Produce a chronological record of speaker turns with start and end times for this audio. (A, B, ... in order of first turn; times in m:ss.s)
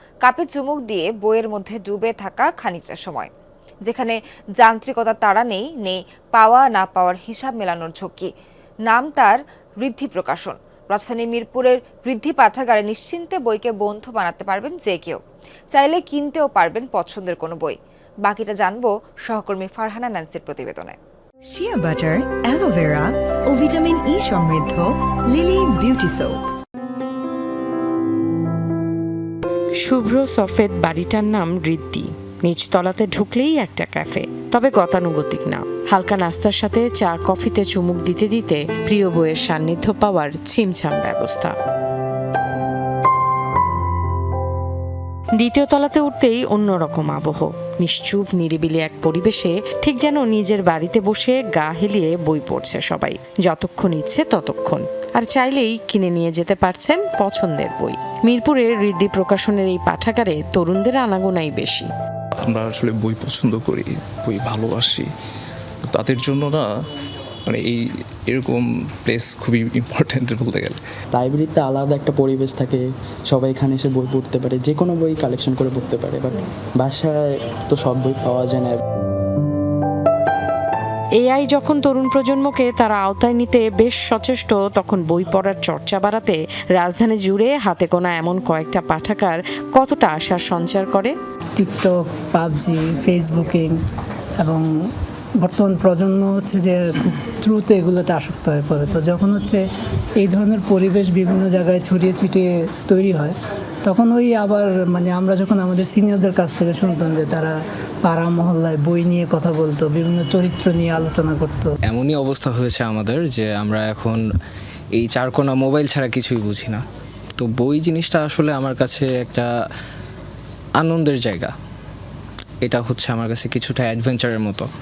0:00.2-0:03.3 A
0:03.8-0:08.3 A
0:08.9-0:15.2 A
0:15.7-0:21.0 A
0:21.4-0:26.4 B
0:29.8-0:41.5 C
0:45.4-1:01.9 C
1:02.4-1:05.1 D
1:05.8-1:06.7 D
1:07.5-1:10.8 D
1:11.1-1:18.8 E
1:21.2-1:31.1 C
1:31.6-1:33.7 F
1:34.4-1:34.6 F
1:35.4-1:39.6 F
1:40.2-1:47.5 F
1:48.0-1:51.7 F
1:51.8-1:54.2 G
1:54.9-1:56.8 G
1:57.4-1:59.5 G
2:00.8-2:01.5 G
2:02.6-2:04.7 G